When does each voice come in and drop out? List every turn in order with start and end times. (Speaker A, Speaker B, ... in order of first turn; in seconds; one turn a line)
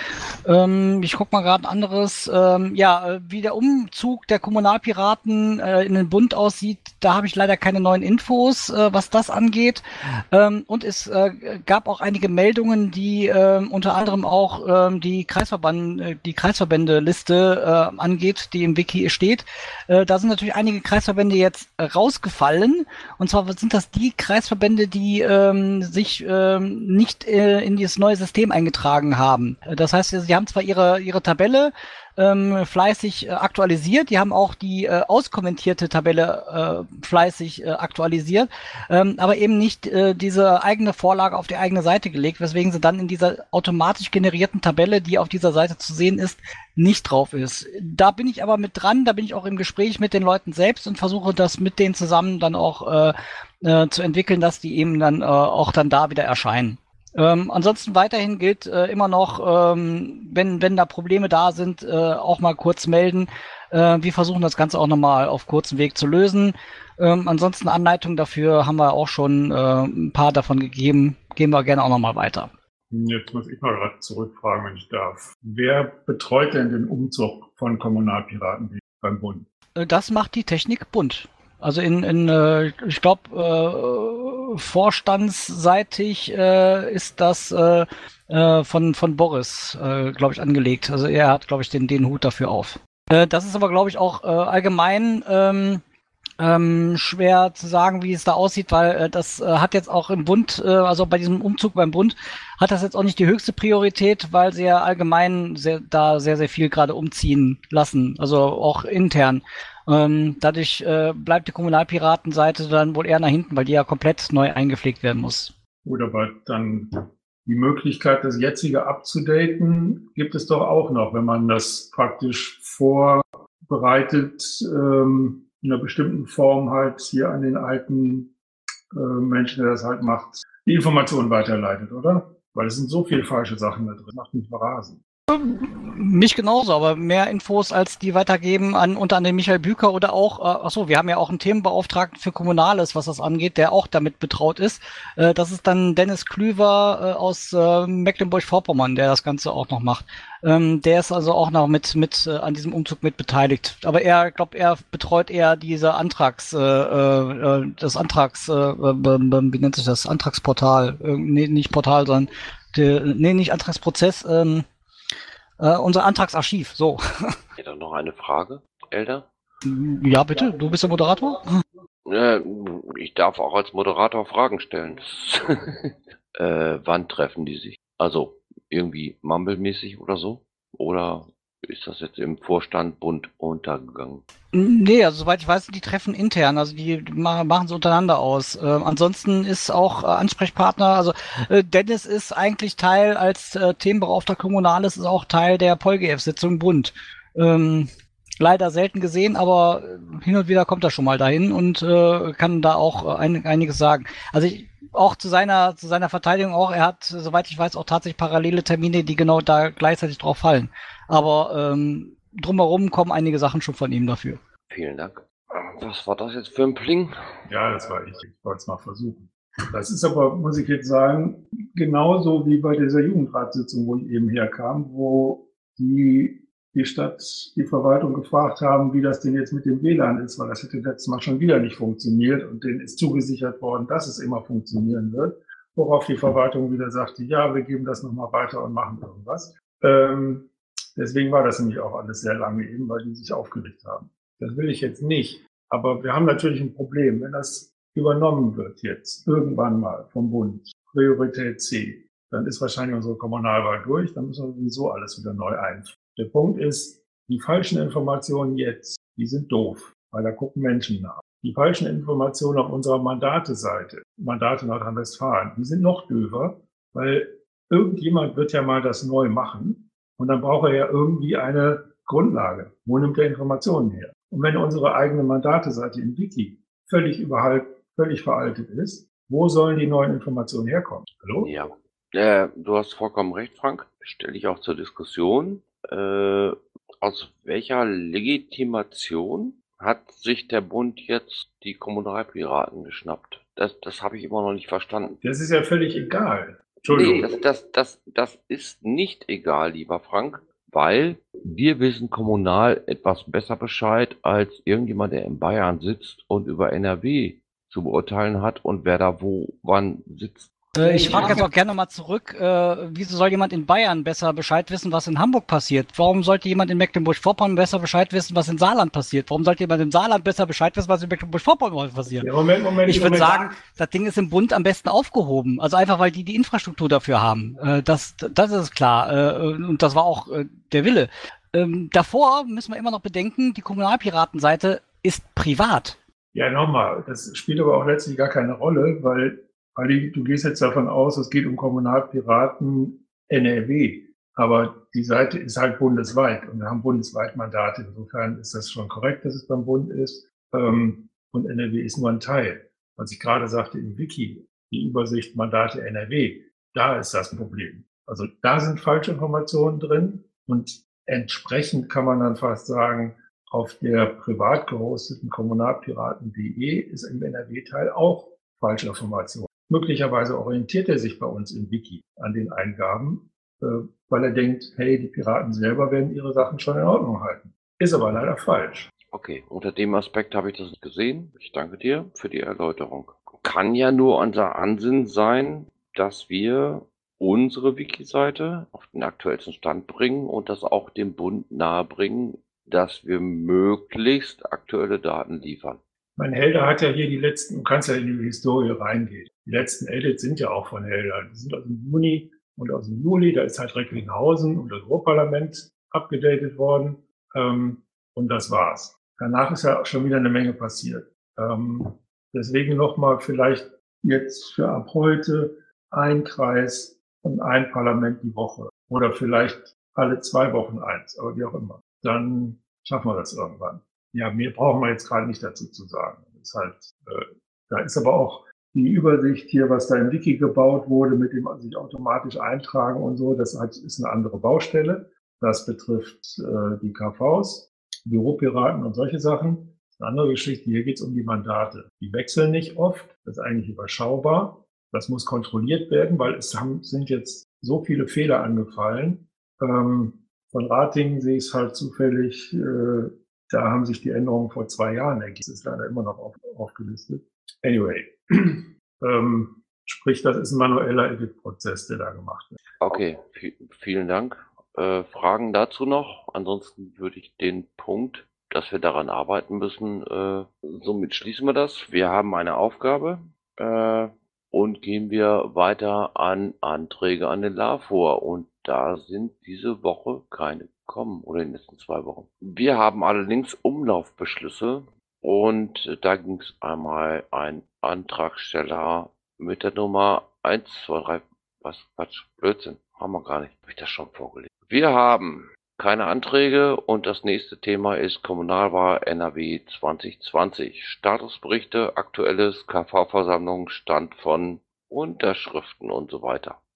Speaker A: 0.5-72.5
Speaker B: 72.9-79.5
Speaker A: 79.8-95.8
Speaker A: 96.4-115.5
Speaker B: 115.8-116.9
Speaker B: 117.5-128.3
Speaker B: 128.9-135.0
Speaker A: 135.3-164.7
Speaker A: 165.6-167.3
Speaker C: 167.6-169.3
Speaker A: 169.7-171.6
Speaker C: 172.1-184.2
Speaker A: 184.5-214.4
Speaker C: 214.7-217.4
Speaker B: 217.5-281.5
Speaker C: 281.4-295.2
Speaker B: 295.2-297.3
Speaker C: 296.9-310.5
Speaker A: 310.8-322.3
Speaker B: 322.2-323.6
Speaker A: 322.9-336.0
Speaker B: 336.3-378.9
Speaker C: 379.1-395.8
Speaker B: 396.2-462.6
Speaker C: 462.8-506.6